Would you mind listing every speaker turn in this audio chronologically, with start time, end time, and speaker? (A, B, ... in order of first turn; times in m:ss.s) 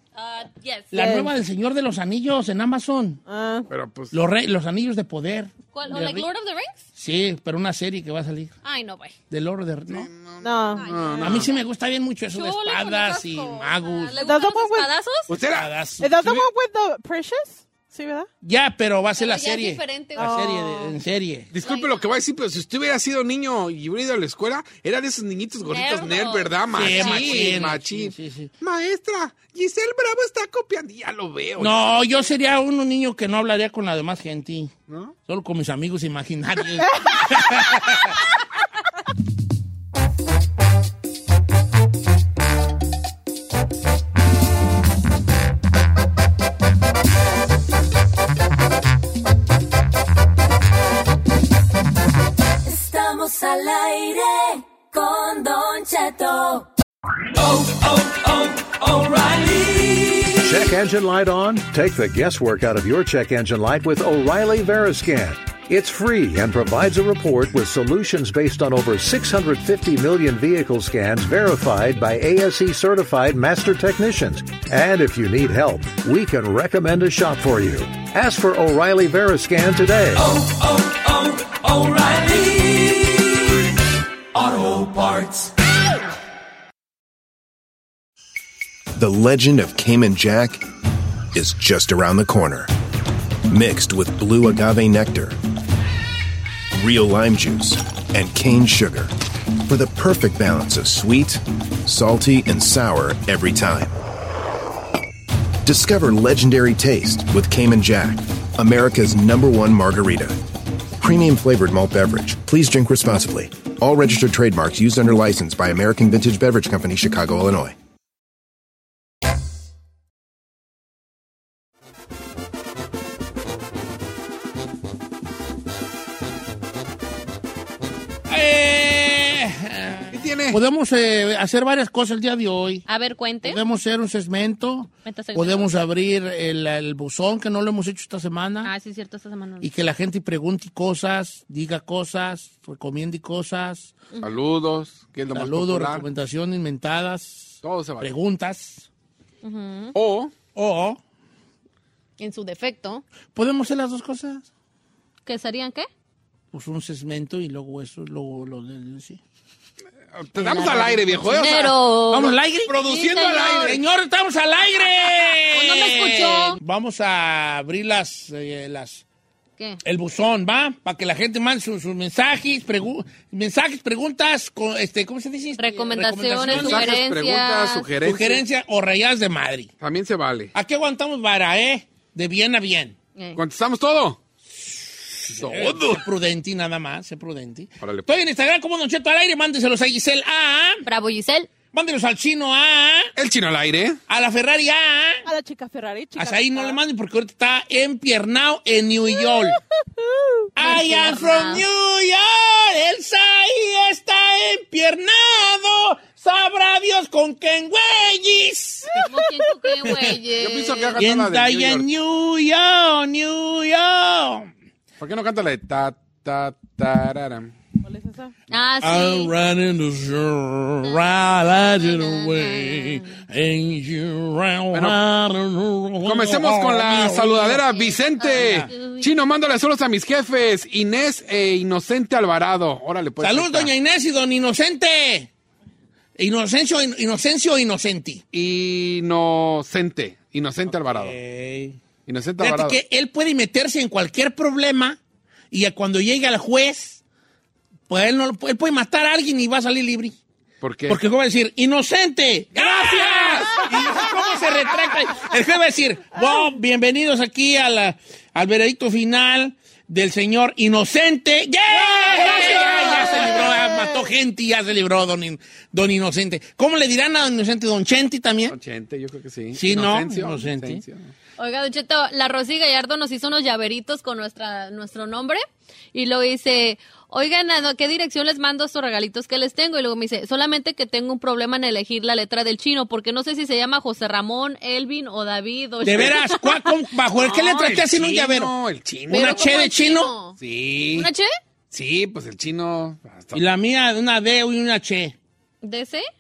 0:00.1-0:00.9 A
0:00.9-0:03.2 B
0:00.9-0:01.3 C
0:03.3-0:03.7 C
0:03.7-0:04.1 D
0:04.1-0:06.3 B
0:05.7-0:06.8 A
0:06.9-0:08.5 B
0:08.6-0:09.1 A
0:09.3-0:10.1 B
0:09.9-0:11.5 D
0:10.4-0:10.9 C
0:10.7-0:11.6 A
0:11.2-0:14.2 B
0:12.3-0:15.3 A
0:14.2-0:14.9 C
0:15.3-0:16.5 D
0:15.5-0:16.1 B
0:16.0-0:18.3 C
0:18.4-0:21.5 B
0:19.2-0:20.7 A
0:20.2-0:20.9 C
0:21.5-0:32.0 D
0:21.6-0:22.0 A
0:25.6-0:27.6 A
0:26.7-0:28.5 B
0:31.6-0:34.7 B
0:34.9-0:35.1 D
0:35.2-0:38.1 B
0:36.9-0:37.2 C
0:52.6-0:56.7 E
0:57.3-1:00.7 E
1:00.4-1:20.2 F
1:20.1-1:23.4 E
1:24.3-1:25.5 E
1:28.9-1:30.6 G
1:31.3-1:32.7 G
1:33.5-1:35.4 G
1:36.7-1:39.1 G
1:39.6-1:43.9 G
1:45.6-1:50.4 G
1:51.0-1:57.7 G
2:08.3-2:12.8 B
2:10.1-2:10.6 D
2:12.9-2:13.6 A
2:13.4-2:18.7 B
2:15.0-2:15.7 A
2:18.6-2:19.7 A
2:19.6-2:23.9 B
2:24.2-2:26.0 D
2:25.3-2:28.9 B
2:27.6-2:28.1 D
2:29.4-2:30.0 A
2:29.9-2:30.3 D
2:30.5-2:31.0 B
2:32.2-2:33.0 A
2:33.3-2:34.5 B
2:35.2-2:35.9 A
2:36.5-2:39.2 B
2:40.1-2:43.8 D
2:40.4-2:43.8 A
2:42.1-2:42.8 B
2:43.6-2:49.0 B
2:45.5-2:46.6 A
2:49.8-2:57.0 B
2:55.6-2:57.9 A
2:56.5-2:58.4 D
2:58.0-2:59.7 B
2:59.8-3:00.5 D
3:00.5-3:03.0 B
3:03.4-3:04.2 D
3:05.3-3:06.0 D
3:05.3-3:10.8 B
3:07.8-3:08.1 D
3:10.8-3:11.5 A
3:11.7-3:13.1 B
3:13.2-3:14.0 D
3:14.1-3:15.2 B
3:15.2-3:16.8 C
3:16.2-3:19.6 B
3:20.0-3:20.5 C
3:20.6-3:29.0 B
3:20.6-3:21.6 A
3:29.0-3:31.0 A
3:29.8-3:30.2 B
3:30.3-3:31.8 D
3:31.0-3:34.5 B
3:35.0-3:37.5 D
3:37.8-3:38.3 C
3:38.5-3:39.3 A
3:38.8-3:47.8 B
3:41.7-3:43.2 A
3:44.7-3:45.0 D
3:46.0-3:53.7 D
3:47.7-3:49.1 A
3:48.3-3:48.7 B
3:53.2-3:55.3 B
3:56.2-3:58.2 B
3:58.3-4:01.2 D
4:00.7-4:01.8 B
4:02.0-4:02.8 D
4:02.4-4:05.0 B
4:05.5-4:07.0 B
4:07.9-4:10.2 B
4:10.6-4:11.0 D
4:10.9-4:28.6 B
4:12.6-4:14.0 D
4:22.0-4:24.0 C
4:22.4-4:23.0 D
4:28.5-4:31.1 D
4:29.5-4:30.8 B
4:31.4-4:35.4 A
4:35.9-4:46.7 A
4:45.8-4:48.5 B
4:47.2-4:49.7 D
4:49.1-4:50.1 B
4:49.1-4:50.4 A
4:50.4-4:51.1 D
4:50.9-4:51.3 A
4:51.7-4:53.4 D
4:53.3-4:55.2 B
4:55.6-4:56.0 A